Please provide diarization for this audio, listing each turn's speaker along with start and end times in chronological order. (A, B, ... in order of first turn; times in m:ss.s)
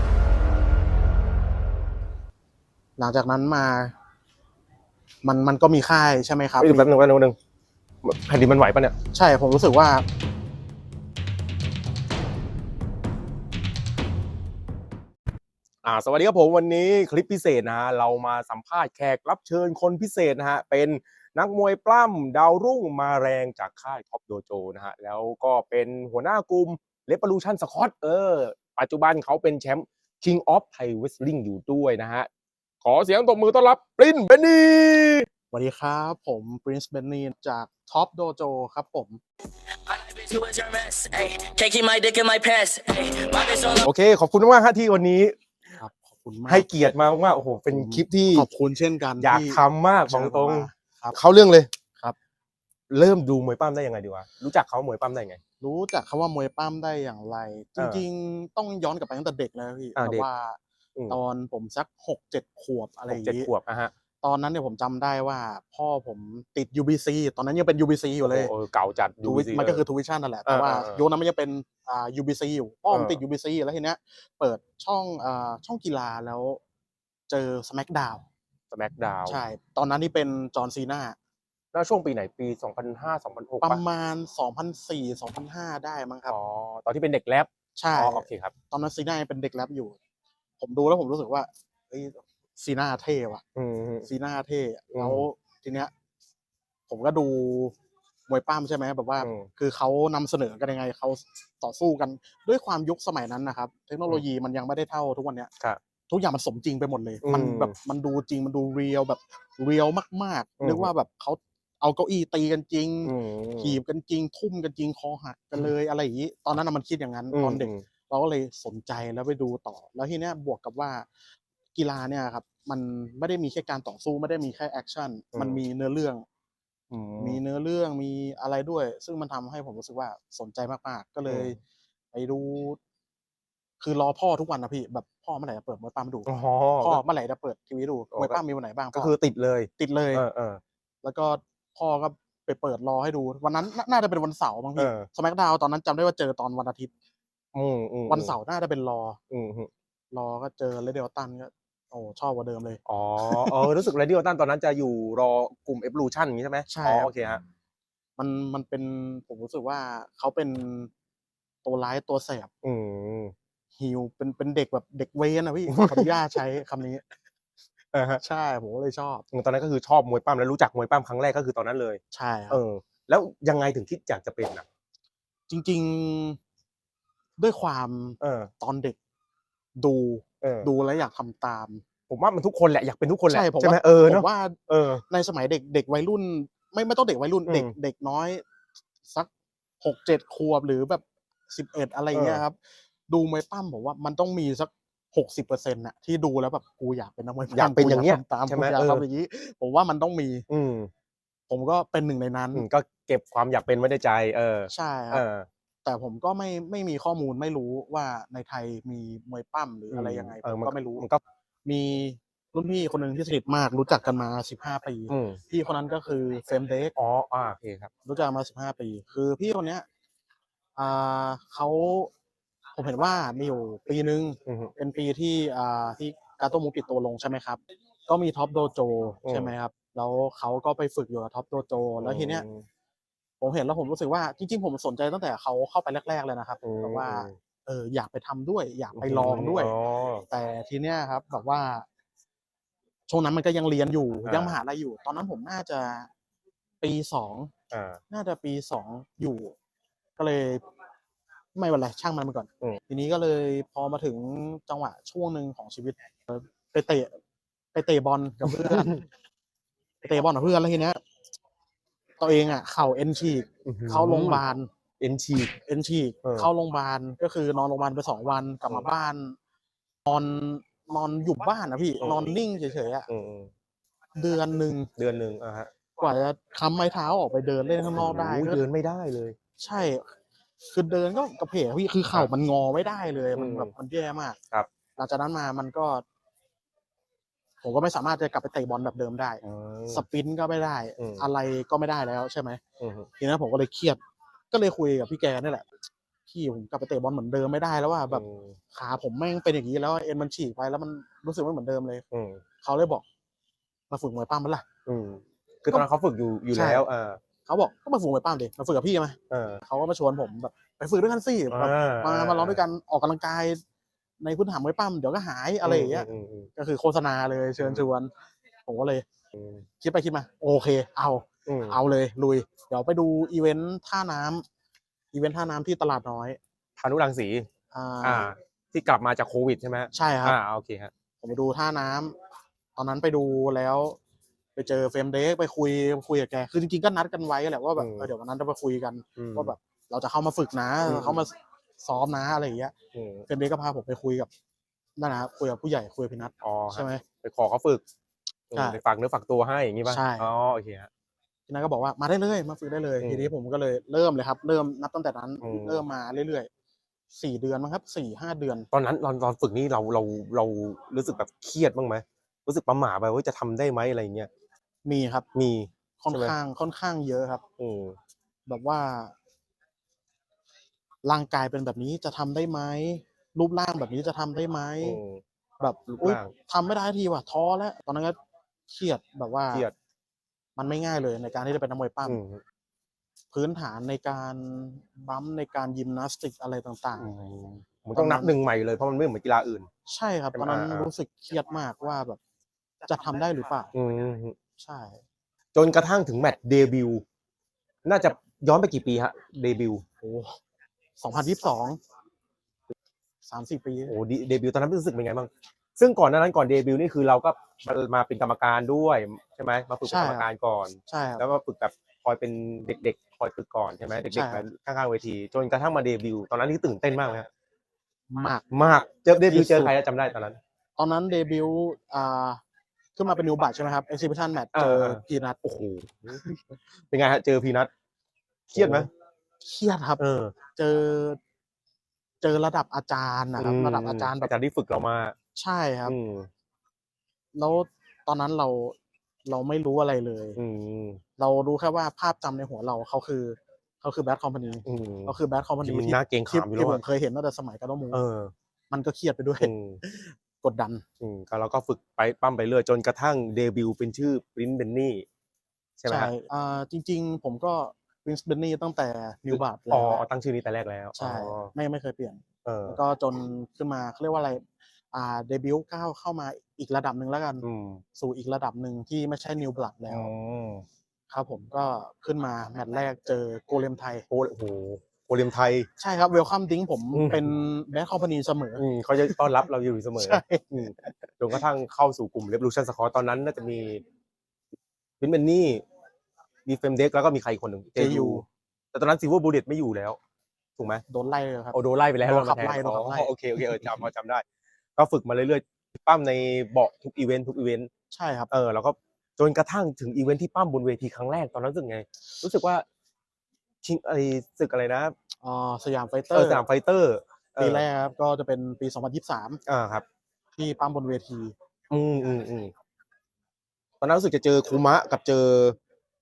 0:03.0-0:03.9 A
0:05.2-0:06.9 A
0:06.6-0:07.3 B
0:08.0-0:08.9 B
0:09.1-0:10.0 A
0:15.8-0:32.3 B
0:32.8-0:35.3 B
0:35.5-0:39.2 A
0:39.8-0:43.8 C
0:43.8-0:45.3 B
0:45.8-0:46.7 A
0:46.5-0:48.5 B
0:47.7-0:51.2 A
0:49.2-0:51.7 B
0:52.9-0:55.4 B
0:55.6-1:03.5 A
0:57.8-0:58.0 B
1:00.0-1:00.2 B
1:03.1-1:03.9 B
1:04.2-1:08.5 A
1:08.2-1:09.8 B
1:09.2-1:16.6 A
1:10.4-1:11.0 B
1:12.9-1:13.2 B
1:17.3-1:18.2 A
1:18.7-1:19.4 B
1:19.2-1:21.2 A
1:21.7-1:23.8 B
1:23.6-1:26.4 A
1:26.3-1:28.5 B
1:27.8-1:30.0 A
1:30.6-1:33.4 A
1:33.5-1:34.1 B
1:34.0-1:35.9 A
1:34.9-1:35.2 B
1:36.9-1:37.7 A
1:38.3-1:45.5 A
1:39.2-1:39.5 B
1:46.1-2:01.1 A
1:47.2-1:47.7 B
1:50.6-1:50.9 B
1:53.0-1:53.8 B
1:57.3-1:57.8 B
2:01.7-2:06.2 A
2:05.3-2:05.6 B
2:06.9-2:07.4 B
2:07.2-2:11.6 A
2:11.3-2:11.6 B
2:12.1-2:12.8 A
2:13.8-2:16.3 A
2:16.2-2:17.0 B
2:16.8-2:19.1 A
2:18.1-2:18.4 B
2:18.9-2:20.6 B
2:19.8-2:20.2 A
2:21.0-2:26.9 A
2:24.8-2:25.1 B
2:27.5-2:28.4 B
2:28.1-2:29.2 A
2:29.3-2:29.7 B
2:30.1-2:33.7 A
2:32.8-2:37.4 B
2:36.7-2:37.1 A
2:38.2-2:40.9 A
2:41.6-2:42.5 A
2:42.6-2:43.3 B
2:43.8-2:47.0 A
2:45.7-2:46.1 B
2:47.9-2:48.2 B
2:48.2-2:49.2 A
2:49.3-2:54.6 B
2:52.1-2:52.6 A
2:55.5-2:56.4 A
2:57.4-2:59.0 A
2:58.2-2:58.5 B
2:59.8-3:01.8 A
3:00.4-3:00.7 B
3:02.1-3:05.0 B
3:03.3-3:04.6 A
3:05.1-3:08.4 A
3:07.5-3:07.7 B
3:09.8-3:12.6 A
3:12.1-3:12.4 B
3:13.1-3:20.5 A
3:17.5-3:19.0 B
3:20.5-3:20.9 B
3:21.5-3:22.7 A
3:22.5-3:25.5 B
3:24.7-3:25.2 A
3:25.8-3:31.0 A
3:29.9-3:31.2 B
3:31.6-3:36.9 A
3:35.1-3:35.4 B
3:37.0-3:37.9 B
3:38.0-3:39.8 A
3:40.8-3:42.1 A
3:42.8-3:52.4 A
3:44.4-3:44.7 B
3:49.2-3:49.5 B
3:52.0-3:52.6 B
3:53.4-3:59.7 A
3:56.6-3:57.4 B
3:58.9-4:00.2 B
4:00.3-4:01.8 A
4:03.1-4:06.1 A
4:04.2-4:04.6 B
4:06.8-4:07.5 A
4:07.7-4:08.0 B
4:08.1-4:09.5 A
4:10.2-4:10.6 A
4:11.5-4:17.2 A
4:17.7-4:19.1 A
4:18.4-4:19.0 B
4:20.0-4:21.0 A
4:22.2-4:24.7 A
4:23.6-4:24.4 B
4:25.0-4:25.5 B
4:25.6-4:29.4 A
4:26.2-4:26.5 B
4:30.0-4:33.1 A
4:32.0-4:32.4 B
4:33.1-4:33.5 B
4:34.2-4:34.9 A
4:35.0-4:35.7 B
4:36.0-4:38.6 A
4:37.9-4:39.4 B
4:39.6-4:40.2 A
4:40.7-4:44.4 A
4:43.4-4:43.7 B
4:45.0-4:46.0 A
4:47.6-4:52.6 A
4:49.4-4:50.0 B
4:51.0-4:51.3 B
4:52.8-4:53.1 B
4:53.2-4:54.0 A
4:54.5-4:55.6 A
4:56.3-5:02.0 A
4:58.1-4:58.6 B
5:02.1-5:02.4 B
5:02.6-5:03.0 A
5:03.9-5:04.6 A
5:04.8-5:07.2 B
5:06.5-5:06.8 A
5:07.4-5:13.6 A
5:09.3-5:09.6 B
5:11.5-5:12.6 B
5:14.2-5:18.1 A
5:15.6-5:16.5 B
5:17.6-5:17.9 B
5:18.6-5:19.0 A
5:19.3-5:19.6 B
5:19.8-5:24.4 A
5:21.4-5:21.8 B
5:25.1-5:26.4 A
5:26.8-5:27.5 B
5:27.7-5:28.3 A
5:28.0-5:30.9 B
5:29.9-5:30.4 A
5:31.2-5:32.2 A
5:32.8-5:34.0 A
5:34.6-5:42.7 A
5:37.8-5:38.1 B
5:39.2-5:39.5 B
5:40.8-5:41.2 B
5:42.9-5:43.2 B
5:43.3-5:44.3 A
5:45.0-5:47.0 A
5:46.4-5:47.8 B
5:48.5-5:50.9 B
5:49.8-5:50.3 A
5:51.5-5:56.5 A
5:53.0-5:53.3 B
5:55.4-5:55.8 B
5:57.1-5:58.7 A
5:58.7-6:04.3 B
6:04.8-6:05.3 A
6:05.3-6:06.4 B
6:06.0-6:07.4 A
6:07.6-6:08.0 B
6:08.4-6:09.1 A
6:11.0-6:15.0 A
6:14.8-6:15.2 B
6:15.6-6:18.2 A
6:15.9-6:16.3 B
6:18.7-6:19.7 A
6:20.6-6:22.2 A
6:22.0-6:22.4 B
6:23.3-6:27.1 A
6:27.0-6:29.7 B
6:27.9-6:28.4 A
6:29.8-6:32.2 A
6:30.3-6:30.9 B
6:32.8-6:33.7 A
6:33.7-6:34.4 B
6:34.6-6:35.0 A
6:35.5-6:37.0 B
6:37.8-6:39.8 B
6:40.0-6:40.4 A
6:41.0-6:41.8 A
6:43.2-6:43.9 A
6:43.9-6:57.3 B
6:49.8-6:50.3 A
6:50.9-6:51.2 A
6:54.1-6:54.4 A
6:58.1-6:58.5 A
6:58.5-7:00.4 B
6:59.2-6:59.7 A
7:00.8-7:02.4 A
7:03.0-7:05.4 A
7:04.5-7:06.2 B
7:06.9-7:07.7 B
7:08.5-7:08.9 B
7:08.5-7:08.9 A
7:09.4-7:10.0 A
7:10.0-7:10.3 B
7:10.5-7:11.2 A
7:12.2-7:14.3 A
7:13.4-7:15.1 B
7:15.3-7:16.0 A
7:15.8-7:16.3 B
7:17.3-7:20.4 A
7:20.4-7:21.0 B
7:21.2-7:28.0 A
7:24.6-7:26.8 B
7:27.9-7:28.3 B
7:28.7-7:30.8 A
7:29.4-7:29.8 B
7:31.0-7:35.0 B
7:35.8-7:36.1 B
7:35.9-7:40.0 A
7:39.3-7:41.5 B
7:41.0-7:50.1 A
7:42.4-7:42.8 B
7:47.4-7:47.8 B
7:49.9-7:50.6 B
7:51.1-7:54.1 A
7:54.1-7:55.7 B
7:55.8-7:59.2 A
7:56.9-7:57.3 B
7:58.6-8:03.8 B
8:00.0-8:00.5 A
8:05.0-8:05.6 B
8:06.4-8:10.0 B
8:07.8-8:08.2 A
8:10.6-8:10.8 B
8:10.9-8:13.8 A
8:11.5-8:14.2 B
8:14.8-8:17.7 B
8:17.9-8:18.3 A
8:18.3-8:22.6 B
8:23.6-8:24.9 B
8:25.2-8:26.4 A
8:26.1-8:27.6 B
8:27.4-8:29.4 A
8:29.5-8:29.8 B
8:30.4-8:31.3 A
8:31.7-8:32.5 B
8:33.8-8:35.6 B